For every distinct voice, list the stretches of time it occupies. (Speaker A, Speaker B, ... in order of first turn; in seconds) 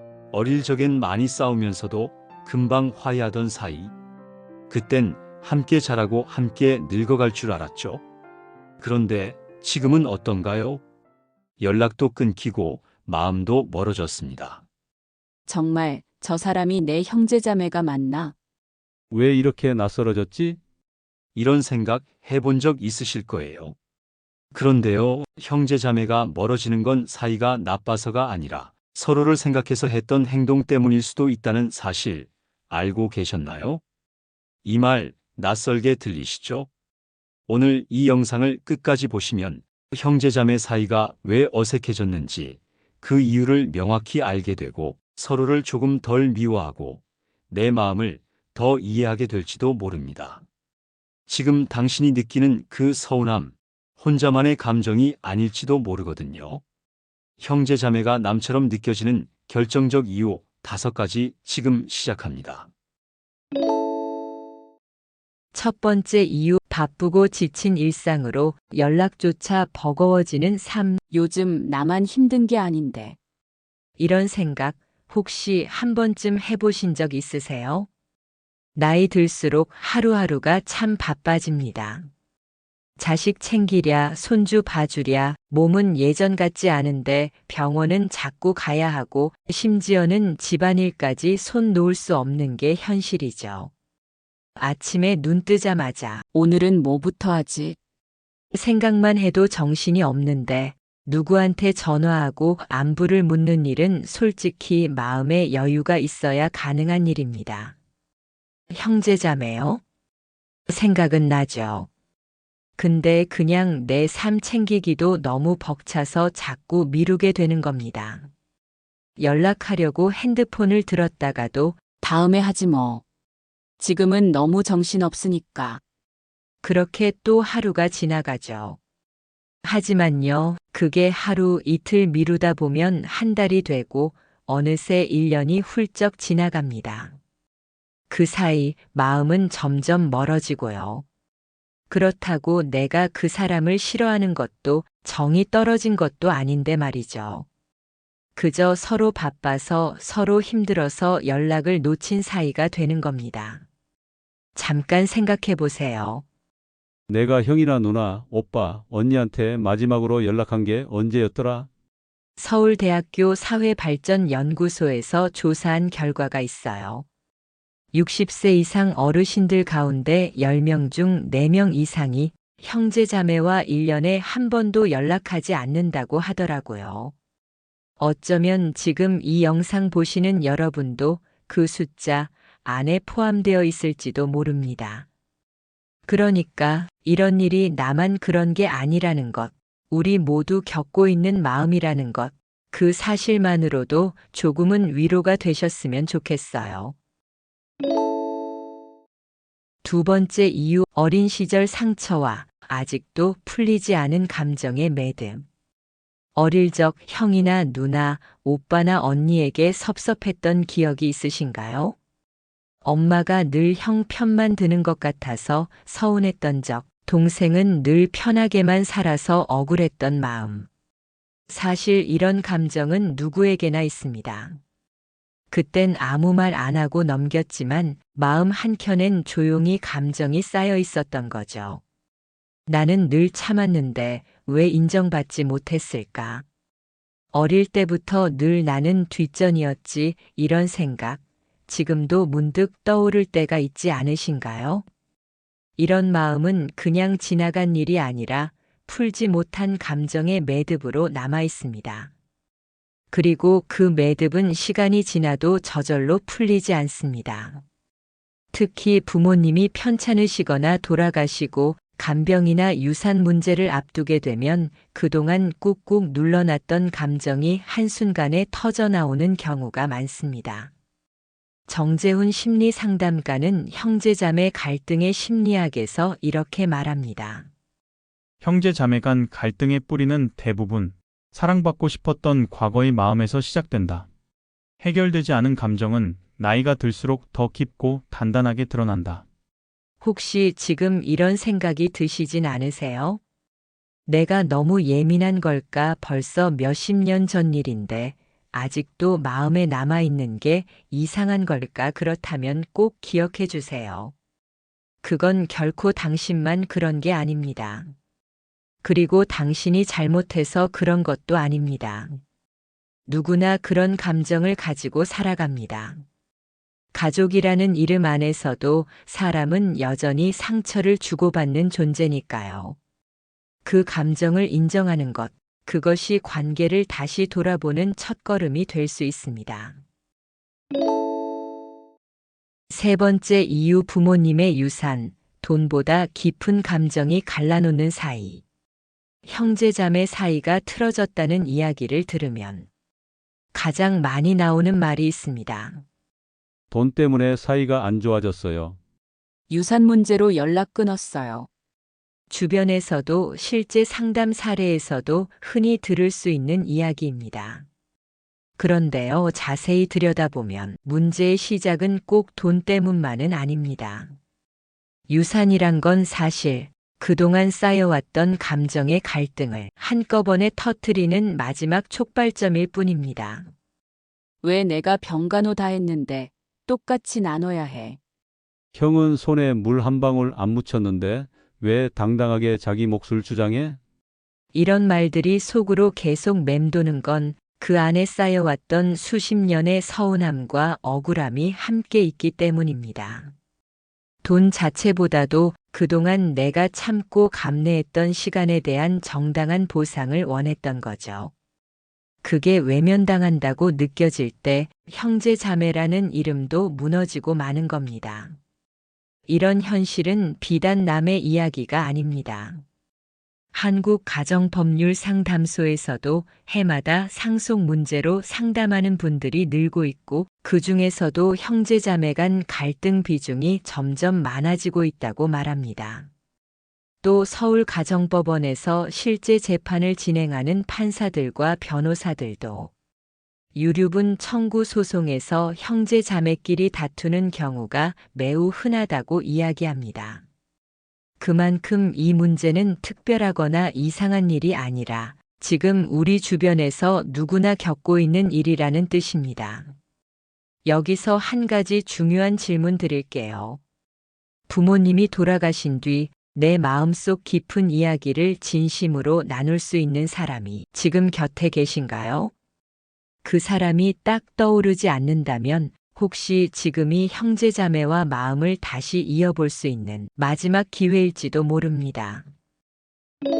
Speaker A: 0.3-3.9, 4.7-8.0, 8.8-10.8, 11.6-14.6, 21.3-23.8, 24.5-33.8, 34.6-36.7, 37.5-50.4, 51.3-56.6, 57.4-62.7
Speaker B: 15.5-18.3, 71.1-73.2, 96.3-97.8, 122.0-123.0, 123.8-125.8, 349.5-351.5, 374.4-378.0
Speaker C: 19.1-20.6, 157.1-161.7, 346.7-348.8, 378.7-383.8
Speaker D: 65.5-71.0, 74.0-77.9, 78.8-82.1, 83.0-93.7, 94.5-96.2, 98.5-107.8, 108.7-109.8, 110.7-111.9, 112.8-118.3, 119.2-121.8, 126.6-128.8, 129.6-137.2, 138.1-141.0, 141.9-147.4, 148.3-153.6, 154.5-156.2, 162.4-167.0, 167.9-177.1, 178.0-185.1, 186.1-196.9, 199.8-205.4, 206.3-211.9, 212.8-220.7, 221.5-224.6, 225.5-231.8, 232.7-236.4, 237.3-244.8, 245.8-252.1, 253.1-257.6, 258.5-270.7, 271.7-277.5, 290.0-293.2, 294.1-304.1, 305.0-307.9, 308.8-312.2, 313.1-316.0, 316.9-322.8, 323.6-329.8, 332.7-338.4, 339.2-342.7, 343.5-345.8, 352.3-357.6, 358.6-364.1, 365.1-373.5, 384.5-393.3, 394.2-401.3, 402.2-408.4, 409.3-412.6, 413.5-426.1, 427.0-432.7, 433.5-440.2, 441.2-449.7, 450.6-453.6, 454.5-462.3, 463.2-472.2
Speaker E: 278.4-284.1, 284.8-289.2